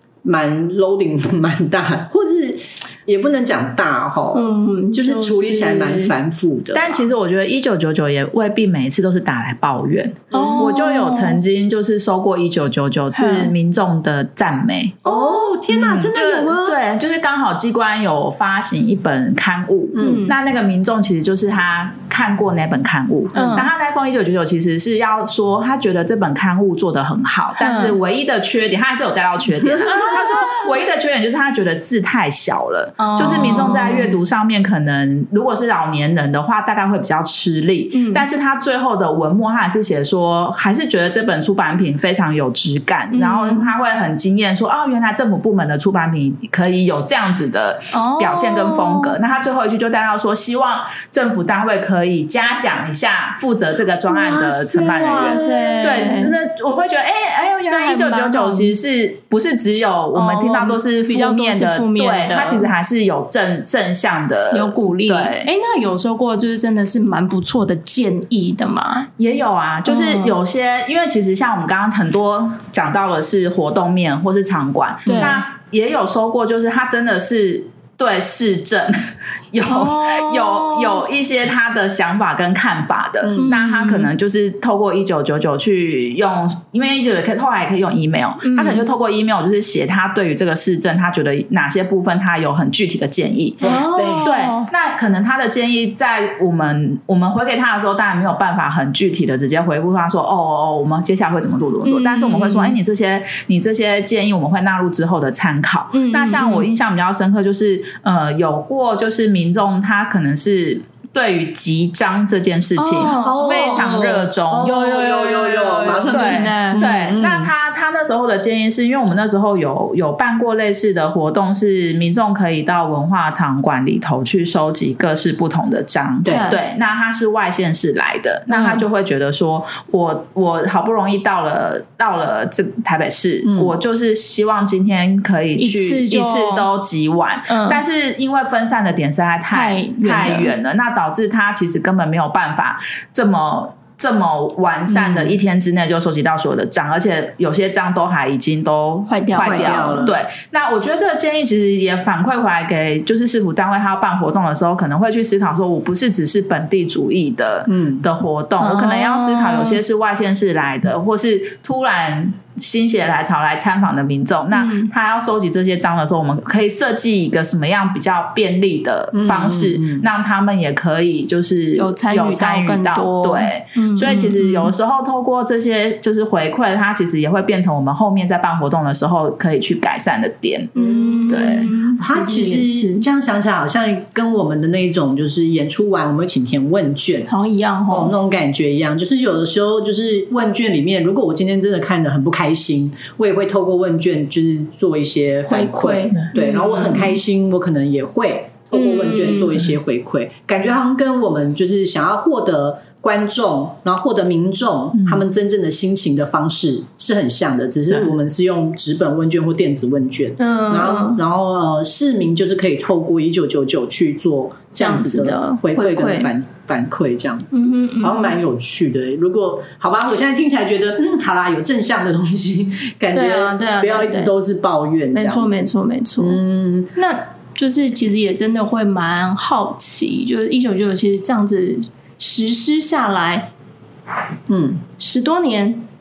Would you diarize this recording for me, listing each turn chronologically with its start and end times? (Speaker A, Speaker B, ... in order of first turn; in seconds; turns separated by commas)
Speaker A: 0.2-7.1, Speaker B: 4.3-6.1, Speaker C: 6.7-15.1, Speaker A: 10.3-10.7, Speaker B: 10.3-11.4, Speaker B: 13.1-13.5, Speaker A: 15.0-16.8, Speaker C: 15.7-65.5, Speaker A: 19.9-20.3, Speaker B: 20.0-20.3, Speaker B: 23.3-23.7, Speaker B: 27.6-27.9, Speaker B: 29.8-30.6, Speaker B: 33.0-34.2, Speaker B: 37.9-38.2, Speaker B: 43.1-43.7, Speaker B: 47.9-49.2, Speaker B: 54.2-56.4, Speaker A: 54.4-56.0, Speaker B: 57.7-58.7, Speaker B: 60.1-62.7, Speaker B: 64.5-69.1, Speaker C: 69.2-93.7, Speaker B: 69.8-70.3, Speaker B: 75.0-75.4, Speaker A: 75.1-75.3, Speaker B: 79.7-81.0, Speaker A: 83.2-83.6, Speaker B: 83.3-84.1, Speaker B: 88.4-88.9, Speaker A: 93.6-94.3, Speaker B: 93.6-94.7, Speaker C: 94.2-114.7, Speaker B: 101.8-102.8, Speaker B: 105.9-106.7, Speaker B: 112.8-113.9, Speaker A: 113.2-117.5, Speaker B: 114.6-116.9, Speaker C: 116.1-180.7, Speaker A: 126.2-126.5, Speaker B: 126.2-126.6, Speaker B: 128.5-128.8, Speaker A: 133.4-133.8, Speaker B: 135.6-136.7, Speaker B: 137.5-137.8, Speaker B: 139.5-140.5, Speaker A: 145.0-145.3, Speaker B: 149.1-150.1, Speaker A: 149.3-150.2, Speaker A: 157.7-158.0, Speaker B: 158.6-159.8, Speaker B: 164.5-164.9, Speaker A: 169.1-170.1, Speaker B: 171.8-174.7, Speaker B: 180.7-183.1, Speaker A: 180.8-187.3, Speaker C: 181.3-181.7, Speaker B: 187.3-188.1, Speaker A: 187.9-226.9, Speaker B: 195.5-197.2, Speaker B: 198.7-199.6, Speaker B: 210.4-211.2, Speaker B: 214.8-216.3, Speaker B: 217.5-218.4, Speaker B: 223.1-224.3, Speaker B: 225.1-226.4, Speaker B: 226.9-233.5, Speaker A: 234.5-234.8, Speaker B: 235.0-235.8